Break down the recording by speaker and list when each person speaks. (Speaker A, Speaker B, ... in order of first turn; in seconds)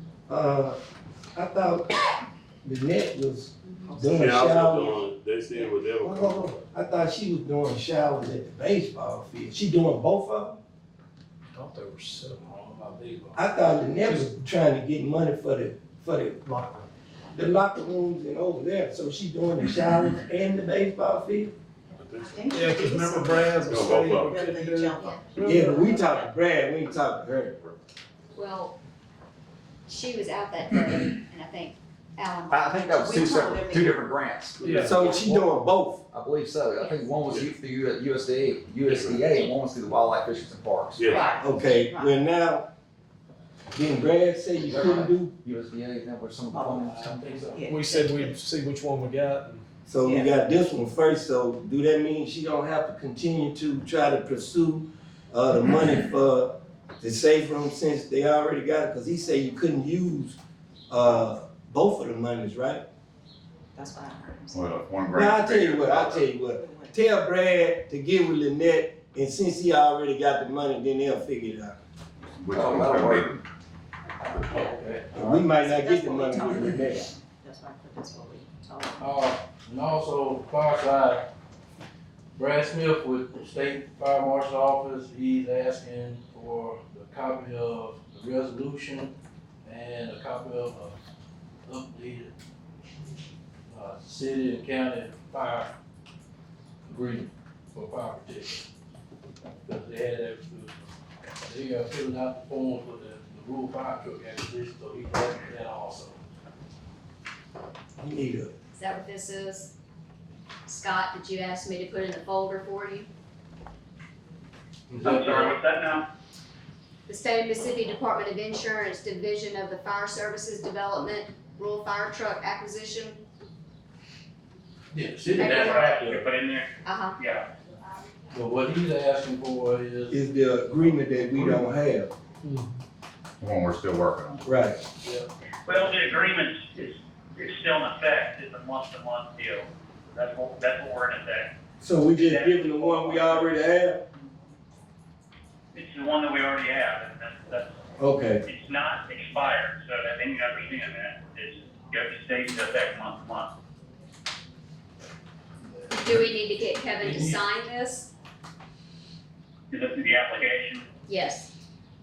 Speaker A: 0.3-0.8, 1.4-1.9, 2.6-5.0, 6.0-10.6, 13.4-16.7, 17.3-21.5, 25.4-27.7, 34.8-36.0, 41.4-42.6, 43.7-45.3, 49.9-56.5, 57.0-60.4, 60.9-62.8, 65.1-71.8, 75.1-77.1, 108.0-108.5, 130.1-132.1, 134.4-134.8, 141.8-144.0, 148.0-148.4
Speaker B: 3.8-4.2, 22.2-26.3, 41.1-42.0, 46.5-48.0, 63.8-64.8, 66.6-66.9, 75.6-79.1
Speaker C: 4.1-6.6, 22.0-22.4, 23.6-24.5, 38.9-39.2, 41.0-41.4
Speaker D: 11.5-12.4, 14.1-14.3, 16.5-16.8, 22.5-25.6, 34.6-35.3, 47.7-49.6, 132.4-132.7
Speaker E: 12.4-13.4, 46.8-47.7, 74.5-75.5, 79.0-81.2, 82.3-89.1, 89.7-91.0, 91.7-92.3, 93.7-95.7, 96.9-98.7, 99.7-100.8, 101.4-106.2, 114.9-115.6, 124.9-126.2, 128.3-131.7, 135.0-135.9, 155.8-156.3, 157.0-157.4
Speaker F: 25.0-25.2, 28.4-28.7, 29.9-33.8, 108.7-109.7, 110.7-113.1, 117.1-123.2, 125.4-126.0, 126.8-127.2, 155.9-158.1, 161.1-161.5
Speaker G: 32.5-35.2, 36.1-41.1, 44.7-47.3, 72.5-73.3
Speaker H: 64.5-66.3, 72.4-73.4, 133.4-134.4
Speaker I: 115.0-116.0, 125.4-127.4, 135.7-141.5, 142.2-143.5, 145.7-147.7, 148.4-153.5, 159.7-160.9